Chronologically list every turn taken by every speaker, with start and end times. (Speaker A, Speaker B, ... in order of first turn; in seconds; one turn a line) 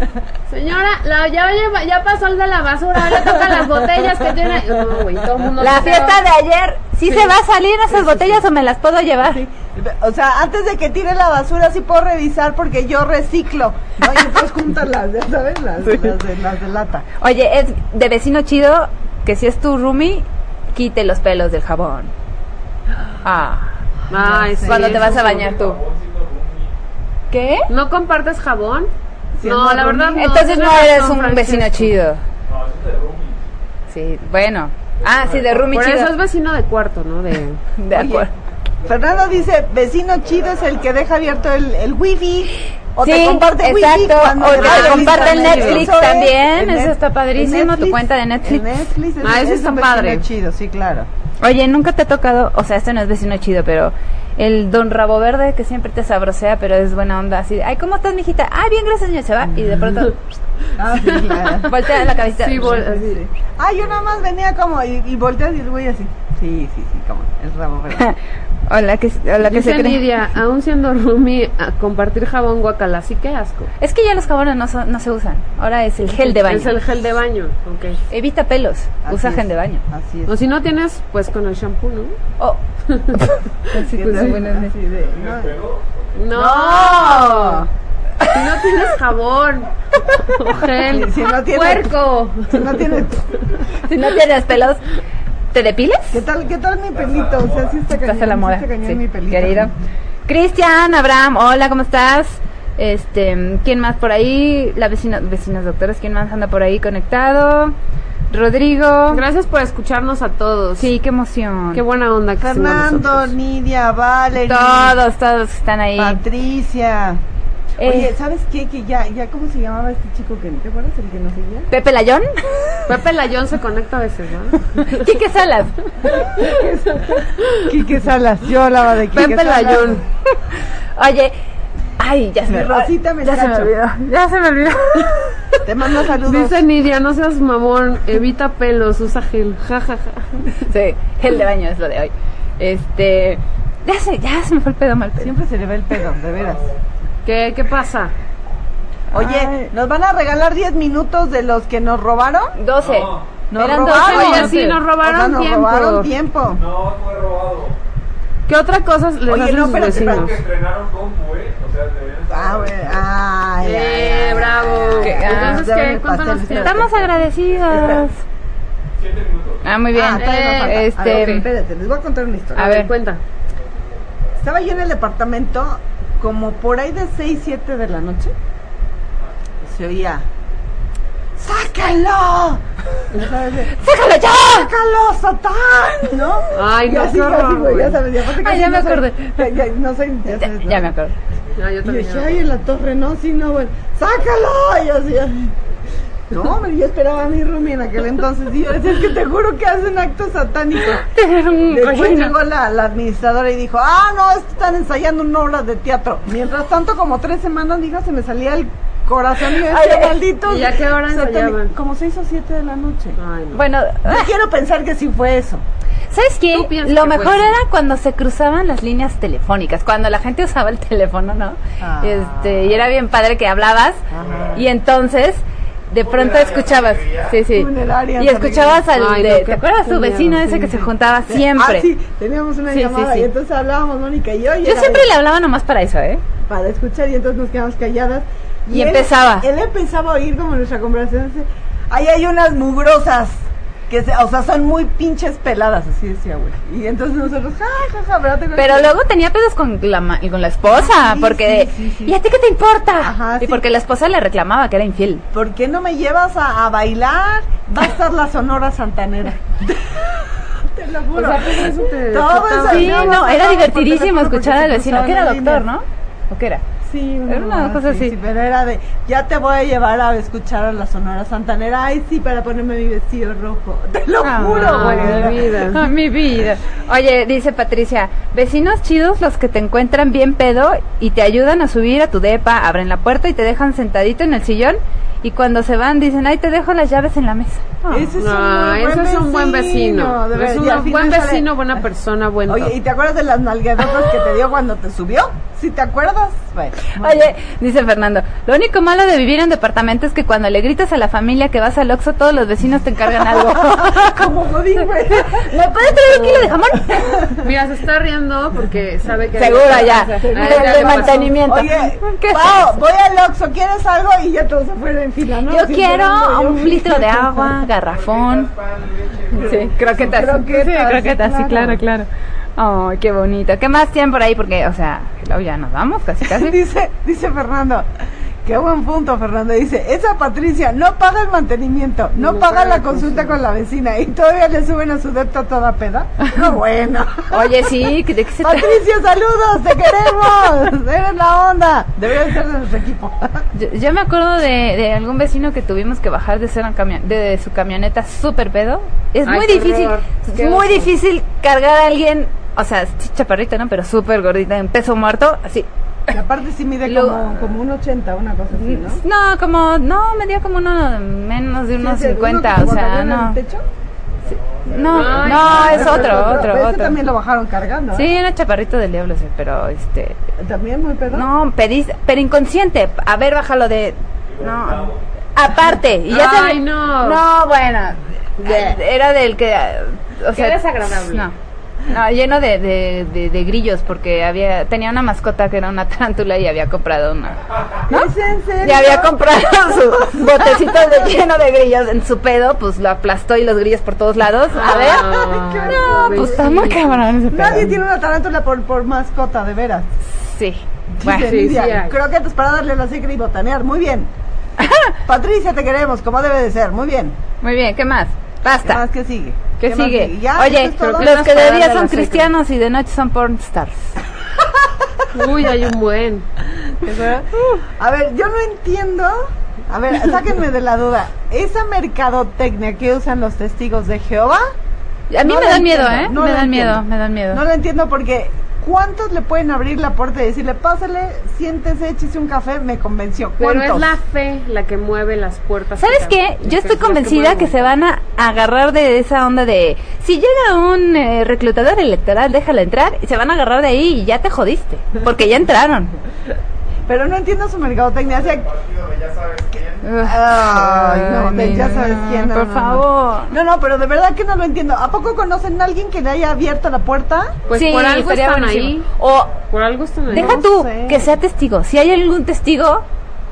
Speaker A: 0.5-6.2
Speaker B: 5.6-9.4
Speaker C: 7.9-8.4
Speaker C: 9.3-17.0
Speaker B: 15.8-16.1
Speaker B: 17.2-22.1
Speaker B: 23.2-23.7
Speaker A: 24.1-25.6
Speaker C: 24.2-25.1
Speaker B: 24.6-25.8
Speaker D: 24.9-26.8
Speaker B: 27.3-27.7
Speaker A: 27.7-28.9
Speaker C: 29.4-30.2
Speaker A: 29.4-31.9
Speaker B: 30.2-32.2
Speaker D: 32.4-33.5
Speaker B: 33.9-36.1
Speaker D: 34.9-35.8
Speaker A: 35.7-37.6
Speaker B: 37.8-38.3
Speaker C: 37.9-38.3
Speaker D: 38.8-39.5
Speaker C: 38.8-51.1
Speaker D: 40.2-40.8
Speaker B: 43.0-48.9
Speaker A: 44.5-45.9
Speaker A: 49.2-50.2
Speaker B: 51.4-60.4
Speaker C: 60.8-61.7
Speaker A: 61.1-61.7
Speaker B: 61.6-62.8
Speaker A: 62.2-63.2
Speaker C: 62.5-68.0
Speaker B: 68.7-70.0
Speaker A: 69.4-73.7
Speaker B: 73.8-76.8
Speaker A: 76.1-78.0
Speaker B: 78.1-79.8
Speaker C: 79.0-80.3
Speaker A: 80.3-82.2
Speaker A: 82.9-84.3
Speaker B: 83.1-84.7
Speaker C: 83.9-85.5
Speaker D: 84.9-86.4
Speaker A: 86.1-87.6
Speaker C: 86.3-87.7
Speaker A: 88.3-93.0
Speaker C: 90.8-91.9
Speaker C: 92.5-93.3
Speaker D: 93.3-93.9
Speaker B: 93.8-94.8
Speaker B: 95.5-96.2
Speaker C: 96.1-99.7
Speaker D: 96.9-97.8
Speaker B: 97.9-99.7
Speaker B: 100.3-107.8
Speaker B: 108.3-109.2
Speaker A: 109.1-110.9
Speaker B: 110.8-111.8
Speaker A: 111.7-113.3
Speaker C: 112.4-114.9
Speaker B: 114.4-116.2
Speaker C: 116.0-117.2
Speaker B: 117.8-118.1
Speaker C: 117.8-121.7
Speaker B: 121.7-122.8
Speaker A: 122.9-125.0
Speaker B: 124.9-126.4
Speaker C: 126.4-129.9
Speaker A: 127.4-127.7
Speaker A: 129.1-130.0
Speaker B: 130.9-131.3
Speaker B: 132.0-135.6
Speaker C: 132.5-133.7
Speaker C: 135.6-136.6
Speaker A: 136.2-140.5
Speaker B: 140.7-145.3
Speaker C: 145.2-146.7
Speaker D: 146.3-146.8
Speaker A: 147.2-148.1
Speaker B: 149.1-149.7
Speaker C: 149.1-152.6
Speaker B: 152.6-154.8
Speaker D: 152.8-153.4
Speaker C: 153.5-156.6
Speaker A: 154.0-156.1
Speaker D: 156.5-157.8
Speaker A: 158.5-160.3
Speaker C: 159.3-160.4
Speaker D: 160.1-163.1
Speaker C: 162.3-167.1
Speaker A: 163.6-166.9
Speaker B: 165.0-165.6
Speaker B: 166.6-168.2
Speaker C: 167.7-168.1
Speaker D: 168.9-169.8
Speaker B: 169.6-171.5
Speaker C: 169.9-172.7
Speaker A: 170.1-171.4
Speaker A: 172.5-173.2
Speaker B: 172.6-172.9
Speaker C: 174.4-178.3
Speaker C: 179.6-180.2
Speaker C: 181.4-183.7
Speaker B: 183.7-184.7
Speaker C: 184.5-190.9
Speaker A: 186.5-188.0
Speaker B: 188.4-189.5
Speaker B: 190.3-191.1
Speaker A: 191.6-192.4
Speaker C: 191.8-195.5
Speaker C: 196.3-201.1
Speaker B: 200.9-202.3
Speaker C: 201.7-213.2
Speaker B: 209.6-210.2
Speaker A: 210.4-211.7
Speaker A: 213.2-213.6
Speaker B: 213.5-214.3
Speaker C: 214.0-215.6
Speaker B: 216.1-231.9
Speaker A: 216.5-217.6
Speaker C: 221.8-222.8
Speaker C: 224.1-224.7
Speaker D: 224.2-224.6
Speaker D: 226.1-227.3
Speaker C: 227.5-228.8
Speaker A: 228.9-230.5
Speaker C: 230.4-235.1
Speaker B: 232.7-233.3
Speaker B: 234.6-236.2
Speaker C: 236.4-248.9
Speaker B: 238.7-239.5
Speaker B: 248.6-255.2
Speaker C: 250.6-252.1
Speaker C: 253.0-253.6
Speaker C: 255.3-265.6
Speaker A: 261.1-263.3
Speaker B: 262.6-266.6
Speaker C: 266.8-275.4
Speaker B: 267.3-268.1
Speaker B: 274.2-288.1
Speaker A: 274.5-275.8
Speaker C: 287.9-291.5
Speaker A: 288.2-292.7
Speaker C: 292.5-297.3
Speaker B: 297.0-307.3
Speaker C: 303.2-305.5
Speaker A: 306.1-306.5
Speaker C: 306.9-307.3
Speaker A: 307.4-311.3
Speaker B: 309.4-312.7
Speaker C: 309.8-317.6
Speaker B: 315.5-318.5
Speaker D: 317.8-320.1
Speaker C: 319.3-321.8
Speaker B: 319.3-326.6
Speaker C: 326.3-327.9
Speaker C: 328.4-337.5
Speaker A: 332.2-333.4
Speaker B: 337.3-338.8
Speaker C: 338.4-343.4
Speaker B: 343.5-356.1
Speaker A: 349.2-350.9
Speaker C: 356.1-359.0
Speaker B: 356.8-357.4
Speaker B: 358.6-363.4
Speaker C: 361.8-363.6
Speaker D: 364.1-365.8
Speaker B: 364.6-367.0
Speaker A: 364.9-366.4
Speaker C: 364.9-368.1
Speaker B: 367.9-370.2
Speaker C: 370.4-371.3
Speaker B: 371.1-381.3
Speaker D: 374.2-375.0
Speaker A: 376.1-377.2
Speaker C: 378.4-378.8
Speaker A: 380.3-381.3
Speaker B: 381.9-397.8
Speaker C: 387.9-389.1
Speaker C: 390.1-390.8
Speaker A: 394.5-397.0
Speaker C: 394.6-396.5
Speaker C: 397.3-399.9
Speaker B: 400.2-401.3
Speaker C: 400.9-404.1
Speaker A: 401.1-402.0
Speaker B: 404.6-404.9
Speaker C: 405.1-407.1
Speaker B: 407.4-408.8
Speaker C: 408.6-411.2
Speaker B: 409.6-413.9
Speaker A: 410.8-412.3
Speaker A: 415.1-416.3
Speaker C: 416.8-424.5
Speaker B: 425.1-427.4
Speaker C: 425.2-433.9
Speaker A: 433.4-437.7
Speaker B: 435.8-445.9
Speaker C: 446.9-448.5
Speaker D: 448.5-449.7
Speaker B: 449.8-453.3
Speaker C: 450.0-457.4
Speaker A: 457.5-458.9
Speaker B: 457.5-459.3
Speaker A: 459.5-460.4
Speaker C: 460.1-461.0
Speaker B: 460.1-462.9